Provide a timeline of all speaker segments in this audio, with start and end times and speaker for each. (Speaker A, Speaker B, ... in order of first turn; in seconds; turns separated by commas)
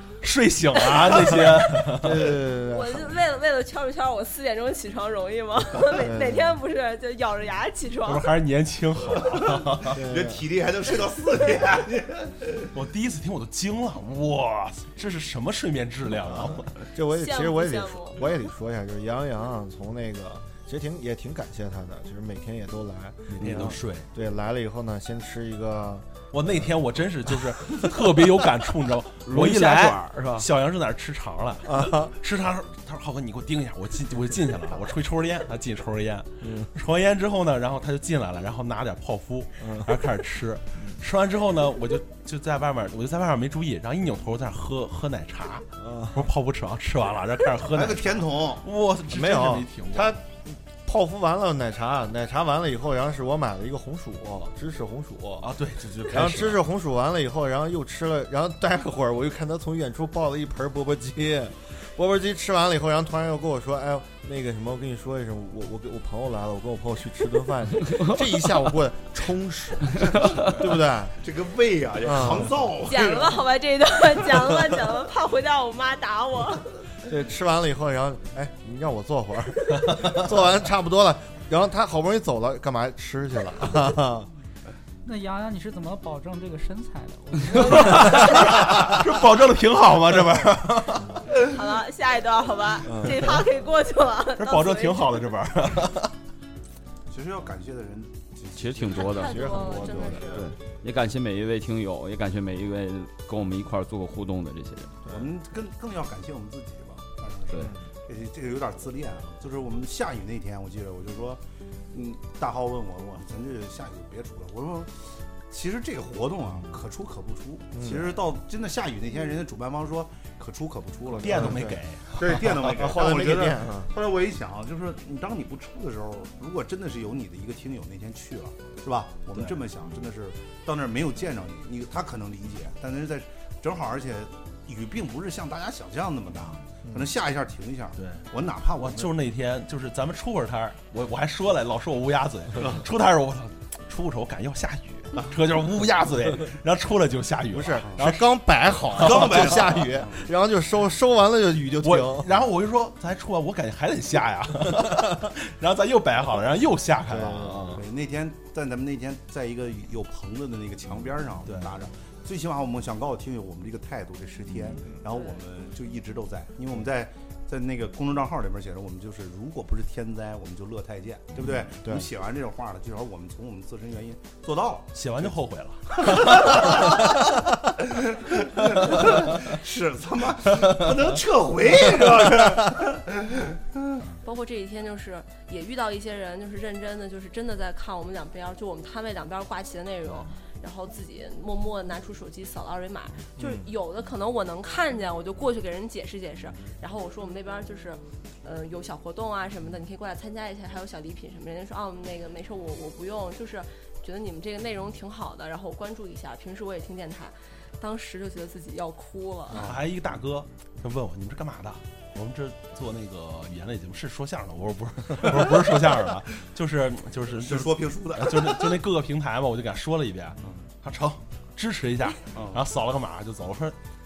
Speaker A: 0.2-2.3, Speaker B: 1.8-3.2, Speaker C: 2.7-8.3, Speaker B: 5.9-6.6, Speaker A: 8.1-10.0, Speaker D: 9.3-12.7, Speaker B: 9.9-10.5, Speaker A: 12.7-16.7, Speaker B: 16.9-26.1, Speaker C: 17.1-18.2, Speaker A: 23.3-24.1, Speaker A: 26.3-50.2, Speaker E: 29.2-30.5, Speaker B: 31.7-32.1, Speaker B: 39.6-40.0, Speaker B: 45.8-46.2, Speaker D: 47.7-48.6, Speaker B: 49.1-55.5, Speaker A: 55.4-56.6, Speaker B: 56.0-71.2, Speaker D: 71.2-73.4, Speaker B: 72.0-72.5, Speaker C: 72.8-76.7, Speaker B: 77.1-84.3, Speaker F: 85.0-88.3, Speaker A: 87.7-91.1, Speaker C: 91.5-95.3, Speaker B: 92.8-93.4, Speaker A: 94.4-96.1, Speaker D: 97.1-99.2, Speaker E: 98.5-105.0, Speaker C: 99.0-100.4, Speaker B: 99.2-100.4, Speaker D: 105.1-139.1, Speaker B: 117.7-118.1, Speaker A: 121.2-122.5, Speaker B: 121.2-123.9, Speaker A: 129.3-129.6, Speaker A: 138.0-148.3, Speaker B: 147.5-152.4, Speaker A: 148.8-149.5, Speaker D: 149.0-150.2, Speaker A: 151.8-157.8, Speaker B: 157.1-157.8, Speaker D: 157.8-175.3, Speaker A: 161.5-161.7, Speaker A: 174.9-176.9, Speaker D: 176.0-177.3, Speaker D: 177.9-184.0, Speaker C: 184.2-209.6, Speaker B: 193.4-193.7, Speaker D: 209.5-209.8, Speaker A: 209.6-223.8, Speaker D: 217.3-218.8, Speaker D: 222.3-222.6